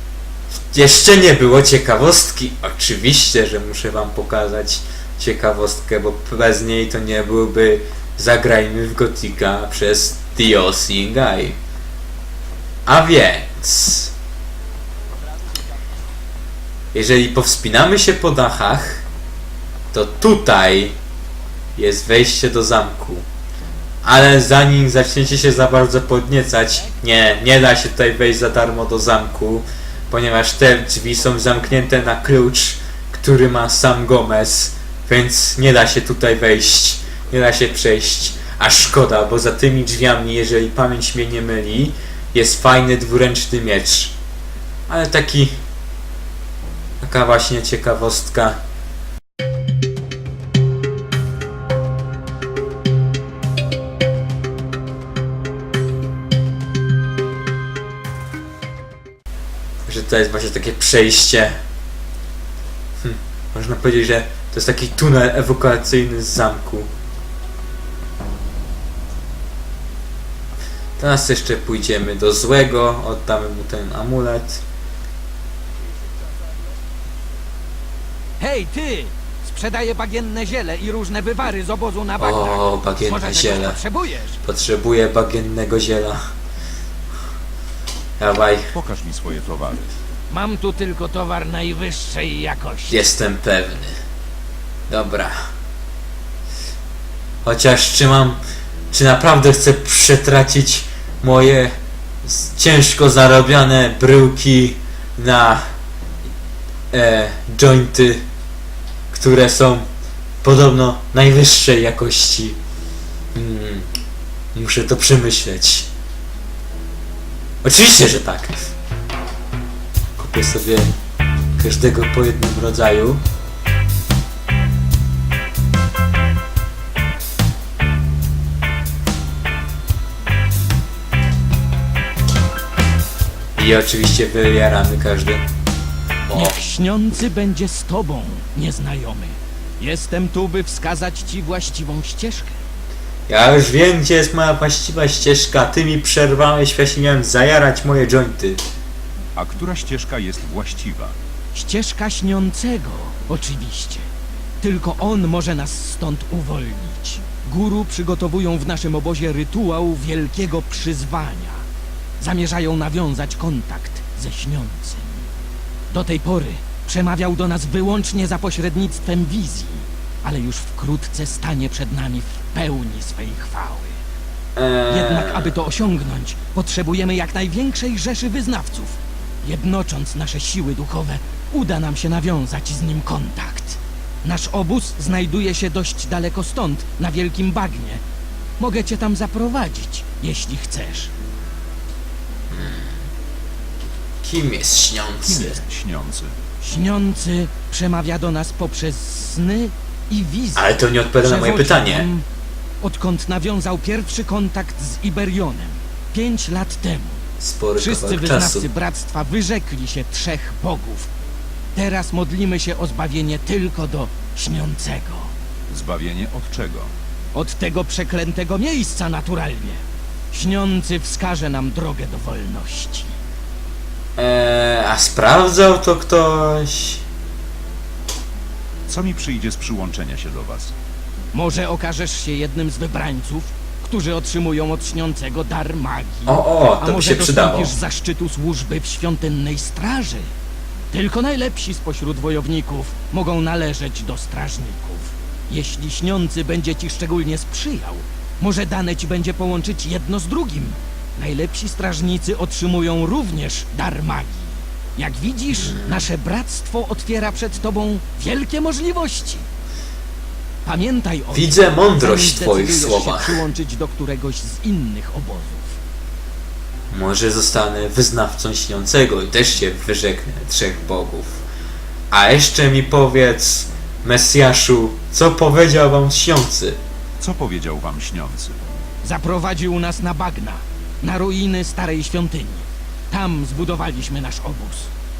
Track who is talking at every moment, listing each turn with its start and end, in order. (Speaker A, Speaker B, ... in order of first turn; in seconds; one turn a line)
Speaker A: 0.7-11.6
Speaker A: 12.9-14.1
Speaker A: 16.9-19.0
Speaker A: 19.9-21.0
Speaker A: 21.8-23.3
Speaker A: 24.0-44.2
Speaker A: 44.9-45.5
Speaker A: 47.0-48.6
Speaker A: 59.9-61.6
Speaker A: 63.0-66.9
Speaker A: 71.0-74.6
Speaker B: 78.4-84.4
Speaker A: 82.2-83.8
Speaker A: 84.4-86.2
Speaker A: 88.2-88.7
Speaker C: 88.8-89.9
Speaker B: 90.3-93.0
Speaker A: 92.9-93.9
Speaker A: 94.9-95.4
Speaker A: 97.4-98.4
Speaker A: 98.9-101.7
Speaker A: 102.2-105.6
Speaker A: 106.9-108.2
Speaker A: 109.1-109.9
Speaker A: 110.4-112.6
Speaker A: 113.3-113.9
Speaker A: 114.5-115.9
Speaker A: 117.6-118.7
Speaker A: 120.2-120.9
Speaker A: 121.6-123.2
Speaker A: 133.6-135.4
Speaker A: 136.3-136.6
Speaker B: 136.3-142.6
Speaker A: 143.3-148.6
Speaker C: 149.4-151.2
Speaker B: 151.5-154.1
Speaker B: 154.6-161.7
Speaker B: 162.2-165.3
Speaker B: 165.9-174.0
Speaker A: 174.6-175.6
Speaker B: 174.9-188.0
Speaker B: 188.6-191.1
Speaker A: 192.5-193.0
Speaker A: 194.2-195.6
Speaker C: 195.2-196.3
Speaker B: 196.6-200.7
Speaker A: 200.6-202.1
Speaker B: 201.2-202.3
Speaker B: 202.8-207.2
Speaker A: 207.4-208.7
Speaker B: 207.8-211.1
Speaker B: 211.8-215.3
Speaker C: 215.7-216.9
Speaker B: 217.3-223.2
Speaker A: 224.2-227.0
Speaker C: 228.9-230.7
Speaker B: 231.3-240.3
Speaker A: 236.3-237.8
Speaker B: 240.9-259.5
Speaker A: 255.5-256.1
Speaker B: 260.6-265.8
Speaker A: 261.3-263.4
Speaker A: 266.9-271.4
Speaker A: 272.1-276.8
Speaker C: 277.2-278.6
Speaker B: 279.0-284.9